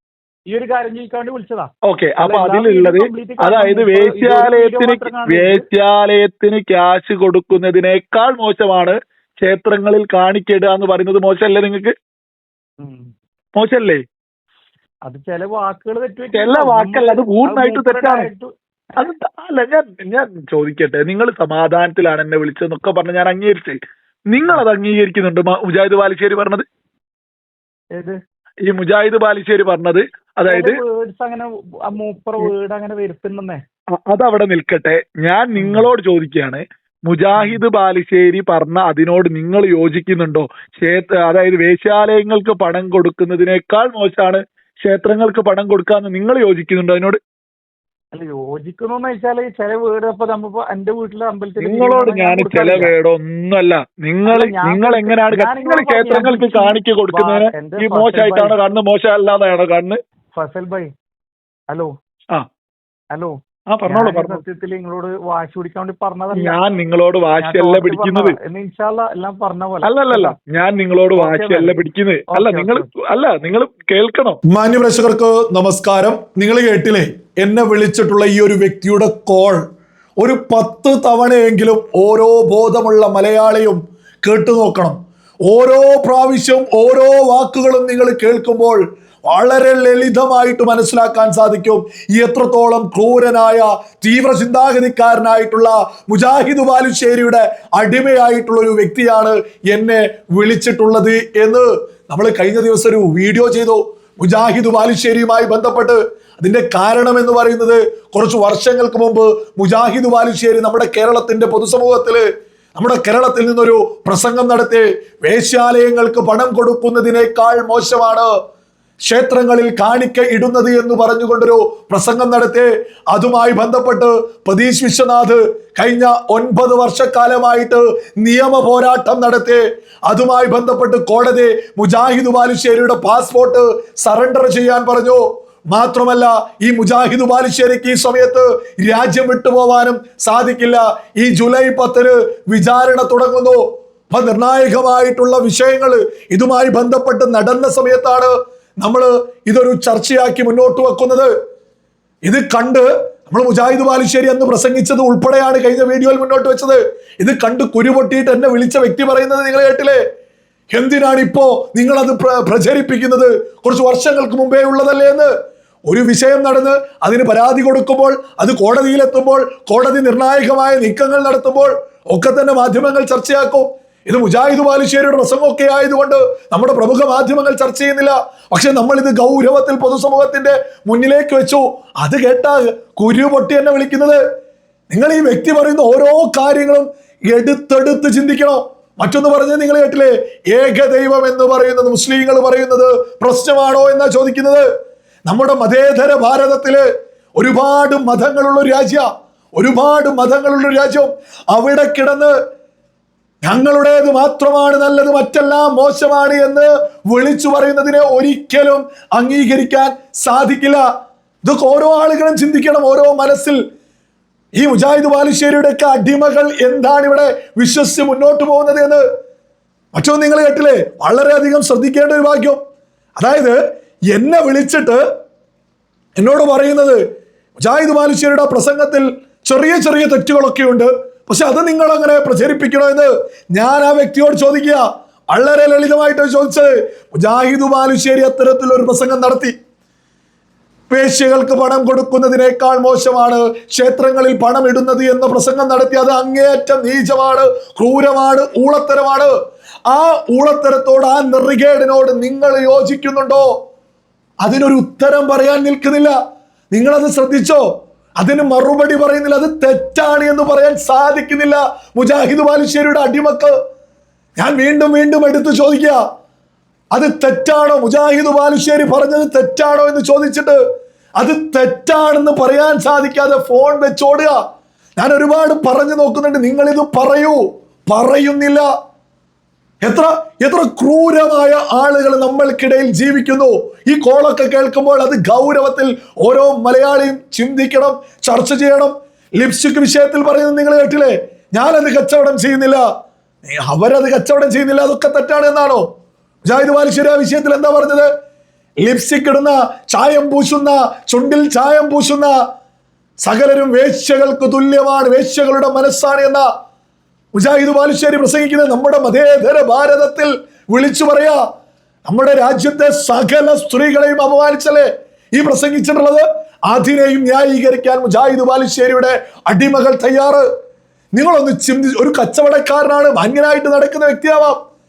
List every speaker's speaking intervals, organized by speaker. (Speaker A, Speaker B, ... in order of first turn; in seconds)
Speaker A: 0.5-1.7, 2.2-5.6, 12.8-13.1, 15.1-18.5, 30.4-33.6, 35.5-35.9, 37.4-37.6, 48.1-52.9, 54.3-58.5, 60.3-60.9, 63.9-66.6, 67.4-70.4, 71.2-72.9
Speaker B: 1.9-11.9, 13.6-14.0, 16.3-18.3, 19.0-23.8, 24.3-26.6, 28.7-30.8, 34.1-47.2, 51.6-60.0, 63.7-64.4, 66.3-68.4, 69.8-74.4
Speaker C: 74.5-79.6, 80.2-85.0, 85.5-112.2, 112.8-118.3, 119.1-151.3, 152.3-160.0, 160.7-165.3, 165.9-184.2, 184.9-194.7, 195.3-196.8, 197.4-199.1, 199.6-202.3, 203.4-210.8, 211.4-213.6, 214.6-219.0, 219.9-222.6, 223.2-223.6, 224.1-225.0, 226.2-227.0, 227.6-239.5, 240.9-249.3, 249.9-253.5, 254.4-256.1, 256.7-257.6, 258.2-263.5, 264.4-266.0, 266.9-270.6, 271.2-274.3, 275.0-278.6, 279.8-292.8, 293.4-295.8, 296.4-298.1, 298.8-302.3, 303.2-306.4, 307.3-311.4, 312.1-320.4, 321.1-324.6